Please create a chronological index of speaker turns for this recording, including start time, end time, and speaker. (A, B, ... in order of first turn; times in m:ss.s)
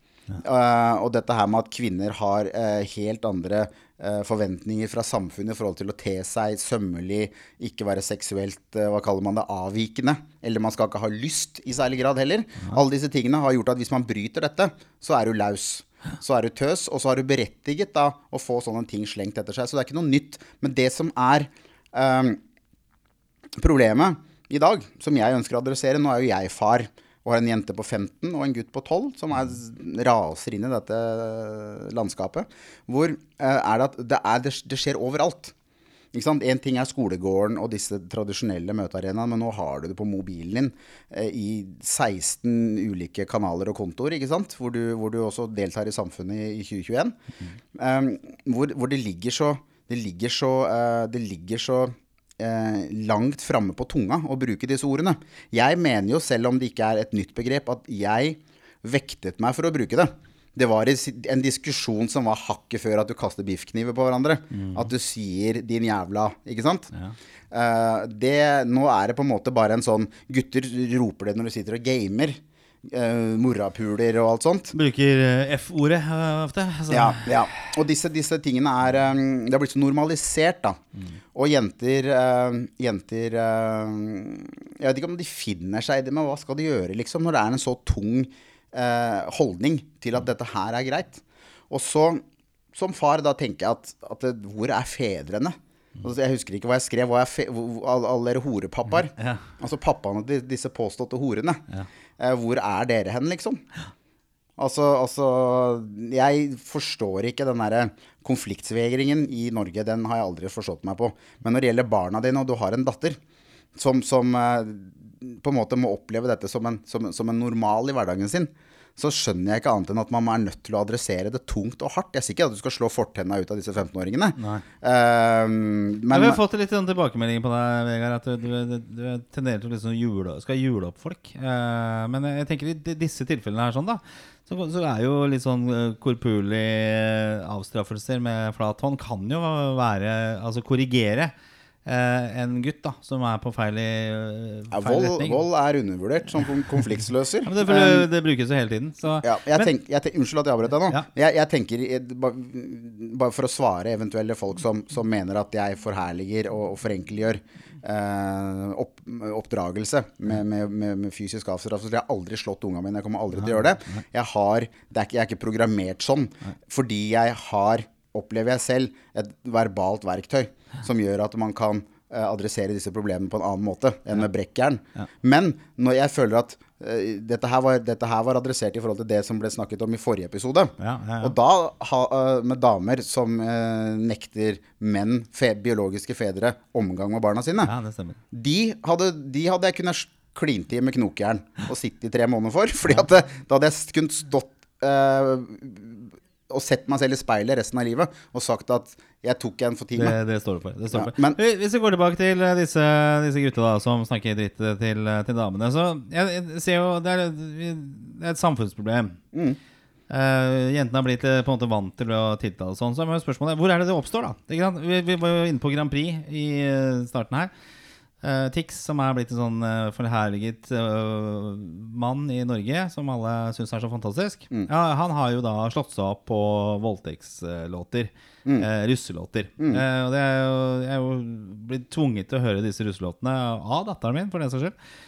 0:00.4-0:22.4 A
0:23.6-0:35.5 A
0:36.1-0:47.2 A
0:47.7-1:06.9 A
1:04.5-1:04.9 B
1:07.5-1:14.7 A
1:14.7-1:17.6 B
1:16.9-1:20.8 A
1:21.3-1:41.6 A
1:39.2-1:39.5 B
1:42.2-1:43.6 A
1:44.6-1:53.2 A
1:53.8-2:06.4 A
2:04.4-2:04.6 B
2:06.1-2:21.3 B
2:21.9-2:25.4 B
2:24.7-2:28.1 A
2:27.4-2:29.7 B
2:29.2-3:07.7 A
3:00.8-3:01.4 B
3:07.6-3:08.2 B
3:08.3-3:20.2 A
3:20.0-3:29.2 B
3:20.9-3:21.4 A
3:29.3-3:29.6 A
3:30.1-3:37.5 B
3:38.2-3:54.8 B